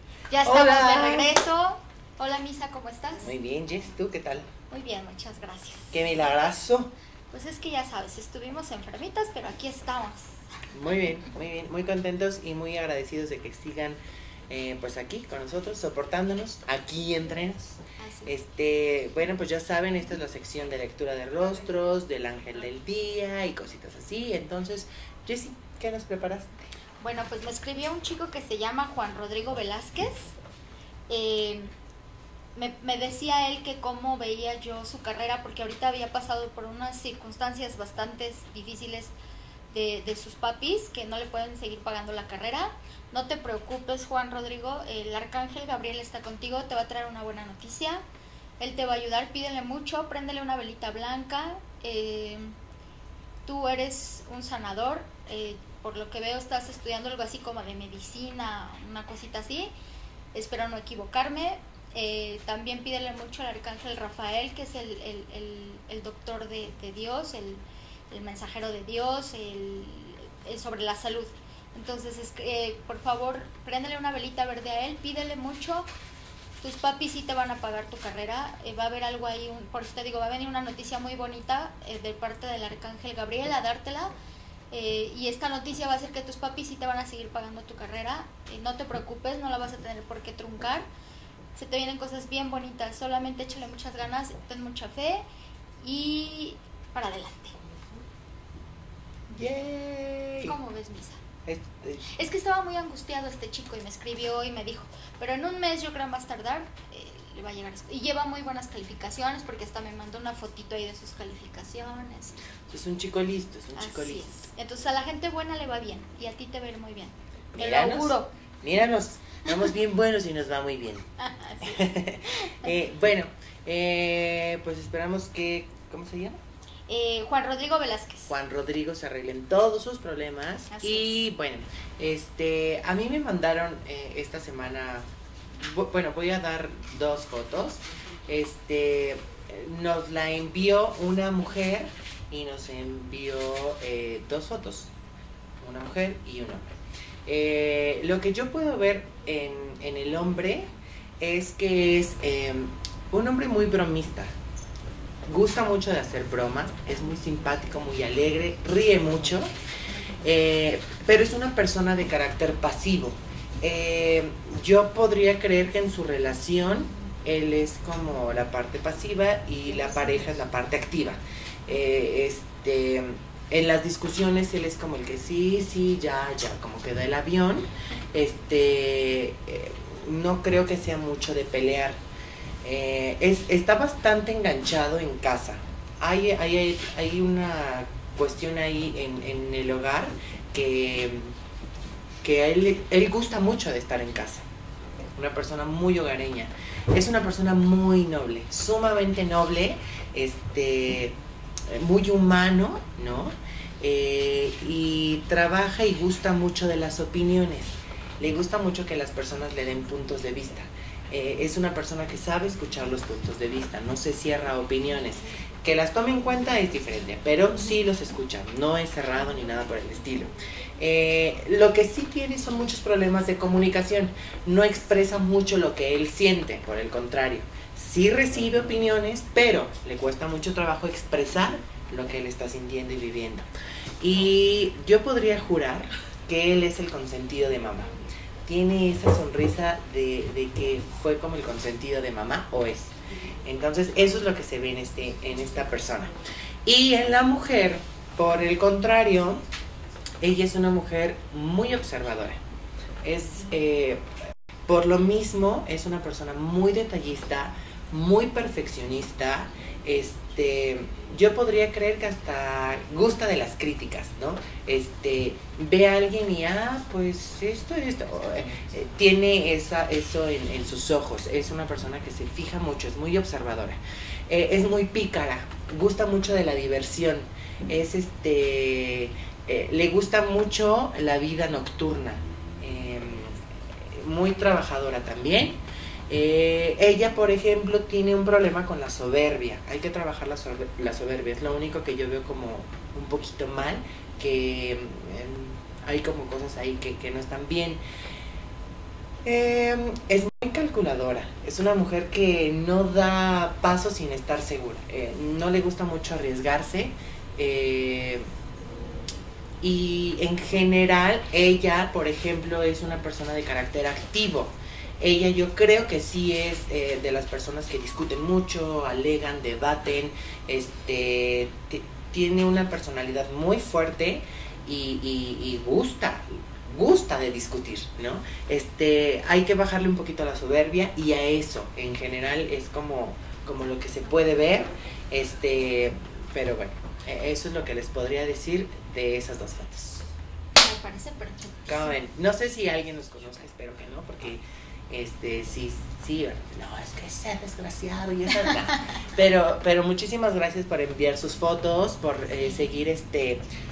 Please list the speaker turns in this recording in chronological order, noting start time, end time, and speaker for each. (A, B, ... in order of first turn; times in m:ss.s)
0:00.3-0:03.3 A
0:00.4-0:01.3 B
0:03.2-0:04.5 B
0:04.7-0:06.0 A
0:05.9-0:06.9 B
0:07.3-0:10.4 A
0:10.7-0:26.5 B
0:18.0-0:18.3 A
0:27.0-0:30.4 A
0:31.1-0:31.7 A
0:32.5-0:39.1 A
0:39.7-0:48.0 A
0:48.6-0:52.5 A
0:53.4-0:59.7 A
1:00.3-1:15.9 A
1:16.6-1:24.1 A
1:24.7-1:30.9 A
1:31.5-1:35.2 A
1:35.8-1:37.6 A
1:39.3-1:40.6 B
1:40.4-1:41.2 A
1:41.4-1:42.0 B
1:42.0-1:52.4 A
1:52.7-1:54.5 B
1:53.8-1:58.3 A
1:57.5-2:01.0 B
2:01.2-2:01.8 A
2:01.6-2:06.4 B
2:06.9-2:08.3 A
2:08.3-2:24.9 B
2:10.7-2:11.2 A
2:25.6-2:26.6 B
2:27.2-2:34.3 B
2:35.3-2:39.5 B
2:40.2-3:02.0 B
3:02.6-3:11.3 B
3:12.2-3:14.4 B
3:15.2-3:21.2 B
3:21.7-3:53.5 B
3:54.0-3:57.9 B
3:58.4-4:02.9 B
4:03.4-4:06.1 B
4:06.6-4:09.4 B
4:10.2-4:12.4 B
4:13.0-4:14.0 B
4:14.7-4:57.8 B
4:59.2-5:08.2 B
5:09.6-5:40.0 B
5:40.5-5:41.9 A
5:41.7-5:53.4 B